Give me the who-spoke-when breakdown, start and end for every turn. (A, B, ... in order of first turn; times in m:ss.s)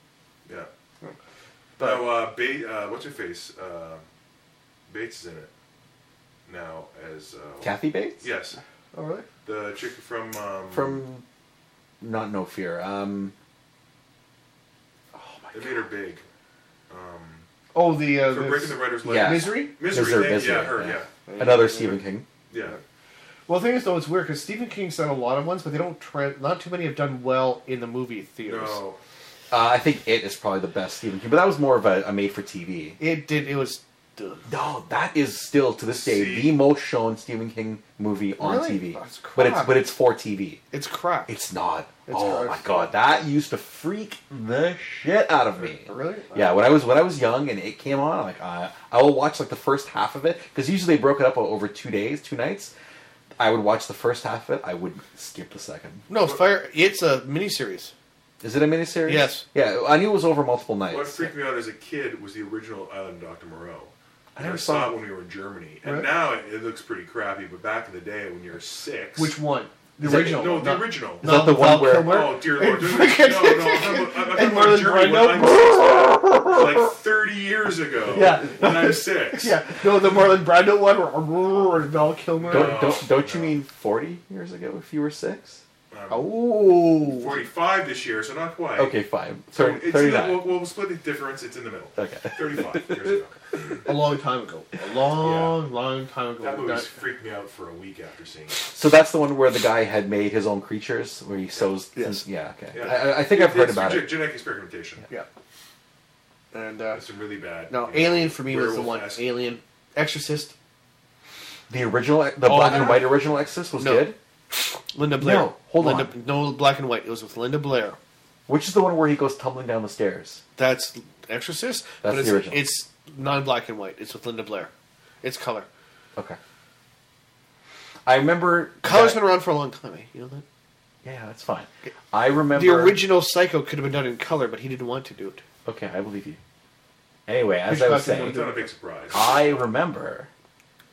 0:01.8-0:02.1 A
0:01.8-0:04.0 B
0:04.9-0:05.5 B
0:06.5-0:08.6 B
0:07.6-0:08.2 C
0:08.9-0:09.3 A
0:09.4-0:11.0 B
0:10.7-0:11.2 C
0:12.0-0:13.3 C
0:15.1-0:15.9 C
0:15.5-0:16.2 B
0:16.9-0:17.4 B
0:17.7-0:19.7 A
0:18.3-0:21.1 B
0:19.0-0:22.3 C
0:21.3-0:22.0 A
0:22.5-0:22.8 B
0:23.5-0:28.8 A
0:28.4-0:29.0 B
0:29.5-0:33.0 C
0:33.0-0:34.5 A
0:34.5-0:40.6 C
0:35.9-0:36.6 B
0:38.4-0:39.8 A
0:40.7-0:41.3 A
0:41.3-0:52.7 C
0:42.1-0:42.9 A
0:45.6-0:46.6 A
0:53.4-0:56.1 C
0:56.1-0:57.9 A
0:58.4-1:01.3 C
0:59.1-0:59.4 A
1:00.9-1:09.4 B
1:04.4-1:05.0 C
1:05.8-1:06.1 A
1:09.2-1:16.6 A
1:10.0-1:10.4 C
1:10.0-1:11.3 B
1:11.2-1:12.3 C
1:12.0-1:19.6 B
1:18.1-1:22.8 A
1:22.4-1:23.6 B
1:22.5-1:25.6 C
1:25.9-1:26.4 B
1:26.1-1:27.4 A
1:27.0-1:29.0 B
1:28.8-1:30.4 C
1:29.5-1:33.3 B
1:32.0-1:33.0 C
1:33.8-1:36.9 A
1:35.2-1:35.6 B
1:36.4-1:38.6 B
1:38.7-1:44.2 C
1:41.9-1:42.2 A
1:42.7-1:45.1 B
1:46.5-1:47.0 A
1:46.9-1:49.4 B
1:47.7-1:50.5 A
1:51.7-1:54.2 C
1:52.4-1:53.2 A
1:53.8-1:58.0 A
1:55.2-1:56.1 C
1:58.5-2:00.4 C
2:00.6-2:04.7 A
2:02.0-2:02.6 C
2:05.2-2:05.7 A
2:08.1-2:09.2 C
2:08.8-2:10.4 A
2:11.0-2:13.0 C
2:12.5-2:15.4 A
2:15.7-2:16.4 C
2:17.3-2:18.4 C
2:17.7-2:18.7 A
2:18.0-2:19.6 B
2:19.1-2:20.3 C